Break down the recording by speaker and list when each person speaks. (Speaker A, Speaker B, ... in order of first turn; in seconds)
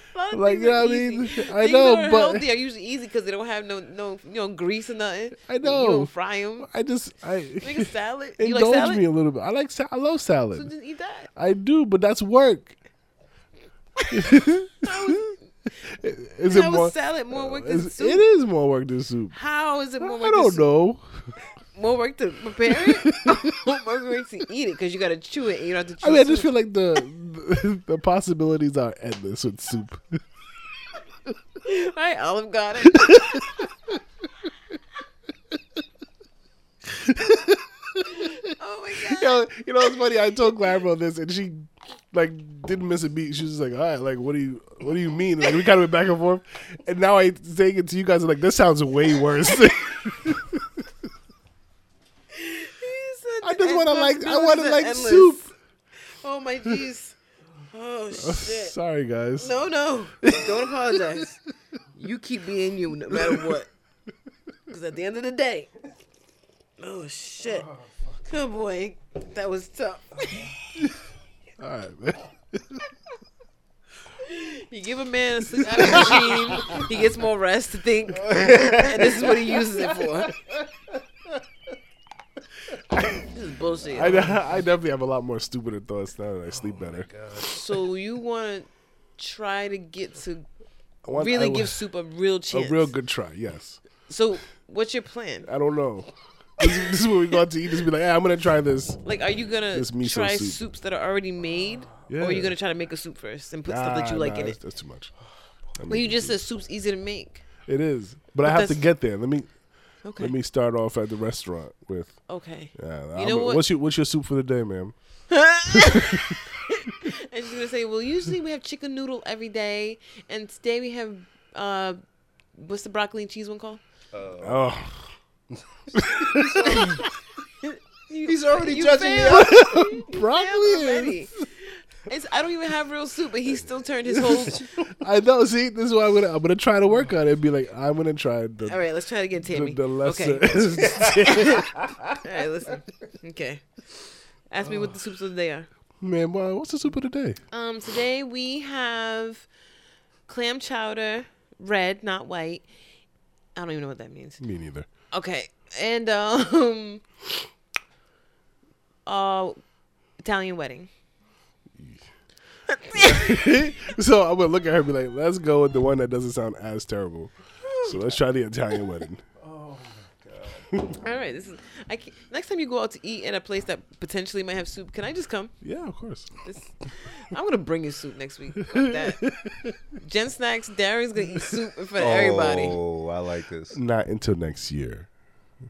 Speaker A: 0.1-6.7, 7.6-9.1, 10.6-11.3, 14.0-15.4, 16.5-18.2, 19.3-20.7, 21.7-26.5, 31.6-33.7, 38.1-39.5, 52.3-55.5, 56.1-57.1, 57.7-58.7, 59.4-61.4, 62.0-63.7, 64.7-65.7, 66.8-67.7, 68.3-70.5, 74.2-80.3, 83.3-84.6, 87.4-90.5, 91.1-92.9, 94.1-95.5, 99.0-104.6, 105.9-107.5, 108.4-108.8, 110.0-110.3, 112.3-113.6, 115.3-122.0, 122.5-123.8, 126.7-127.0, 127.6-134.7, 138.6-143.6, 144.5-145.7, 147.5-149.5, 150.3-152.7, 153.6-154.4, 155.1-157.0, 159.1-159.6, 160.2-160.9, 162.7-163.4, 167.6-168.2, 171.0-175.6, 176.4-179.3, 180.0-182.8
Speaker B: 0.3-2.4, 5.4-10.7, 11.4-12.8, 14.1-15.3, 15.8-19.4, 20.0-21.3, 22.7-23.6, 26.0-30.2, 32.9-33.9, 36.9-50.8, 53.4-55.5, 58.1-59.6, 60.2-61.2, 63.1-63.5, 71.6-72.9, 75.6-76.8, 83.9-87.1, 91.0-91.8, 92.5-93.8, 95.5-99.0, 99.7-100.6, 102.1-102.5, 103.7-105.1, 105.8-106.4, 107.7-109.5, 110.2-112.2, 112.8-115.0, 115.7-117.0, 124.4-125.1, 125.9-127.0, 129.2-131.5, 135.0-138.8, 139.4-141.9, 146.0-147.4, 154.4-154.9, 161.8-162.1, 162.9-169.2, 170.7-171.0, 175.6-176.4, 178.6-179.8, 183.7-185.1
Speaker C: 78.3-79.1, 86.6-87.6, 124.1-124.7, 125.6-127.0, 128.2-129.6, 140.8-141.1, 169.4-170.7, 182.0-183.8